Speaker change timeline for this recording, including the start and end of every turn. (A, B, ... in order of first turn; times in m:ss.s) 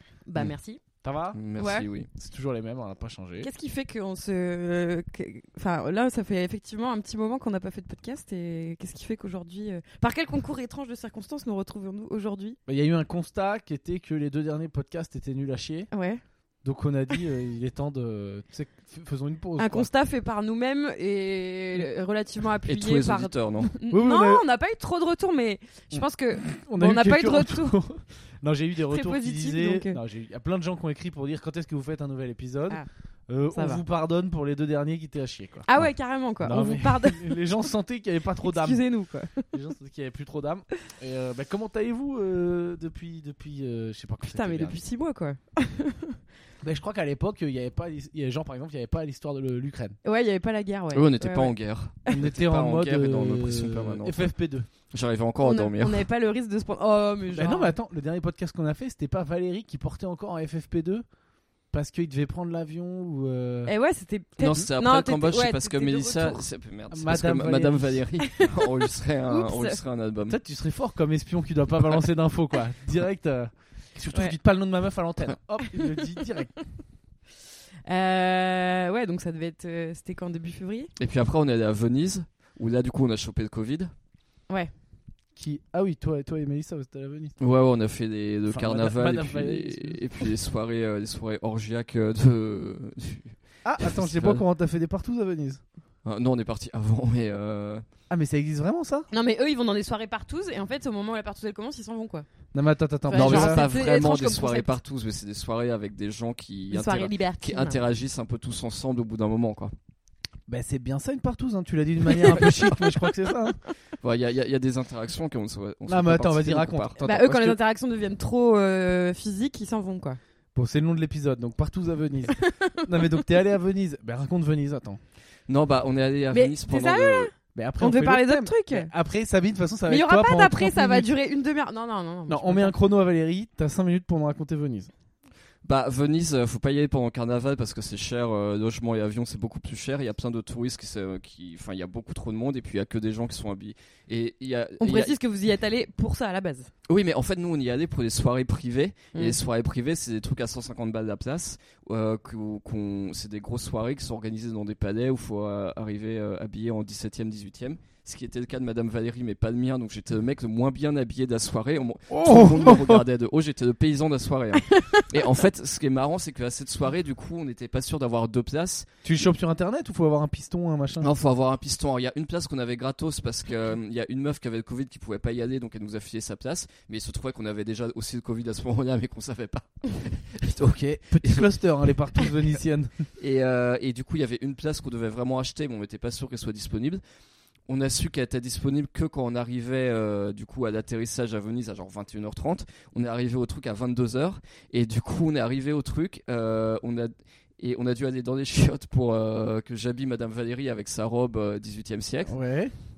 0:00.3-0:00.8 A
0:01.0-0:01.4 B
0:01.3-0:02.1 C
0:01.6-0:01.9 A
0:02.2-0:03.5 B
0:03.4-0:12.6 A
0:12.7-0:15.9 B
0:15.9-0:16.2 A
0:16.6-0:19.9 B
0:19.6-0:27.8 A
0:22.7-0:23.7 C
0:23.9-0:24.4 B
0:25.9-0:35.7 B
0:28.9-0:30.0 A
0:33.5-0:33.8 A
0:35.7-0:37.3 A
0:36.4-0:38.8 B
0:38.4-0:39.5 A
0:39.5-0:44.8 B
0:44.3-0:46.2 A
0:46.6-0:50.0 B
0:50.0-0:51.5 A
0:50.9-0:54.3 C
0:52.1-0:54.7 B
0:54.9-0:56.0 C
0:55.4-0:57.7 A
0:57.4-1:01.0 B
1:01.7-1:03.7 B
1:03.7-1:06.4 A
1:04.4-1:10.4 C
1:06.9-1:08.1 B
1:08.2-1:08.7 A
1:09.3-1:09.8 A
1:10.3-1:16.5 B
1:15.7-1:16.6 A
1:17.9-1:20.9 A
1:21.0-1:23.9 C
1:25.4-1:27.4 B
1:27.4-1:34.4 C
1:28.5-1:30.0 B
1:33.6-1:35.6 B
1:36.0-1:37.8 C
1:38.1-1:39.1 B
1:39.1-1:42.3 A
1:42.5-1:43.7 B
1:43.1-1:44.7 A
1:43.2-1:49.7 C
1:46.7-1:47.8 A
1:50.5-1:53.6 B
1:52.1-1:52.9 A
1:54.0-1:57.0 C
1:55.9-1:57.6 B
1:57.0-2:00.2 A
2:00.6-2:05.0 B
2:02.3-2:03.2 A
2:05.5-2:07.3 C
2:06.3-2:08.9 A
2:07.5-2:11.1 B
2:09.9-2:12.8 A
2:12.3-2:14.9 B
2:15.6-2:25.1 C
2:24.8-2:26.7 A
2:26.9-2:48.9 C
2:29.1-2:29.4 A
2:42.1-2:43.0 B
2:44.7-2:45.0 A
2:49.0-2:51.1 B
2:51.0-3:01.5 C
3:00.7-3:03.0 B
3:03.2-3:07.0 C
3:07.7-3:22.4 C
3:22.3-3:22.7 B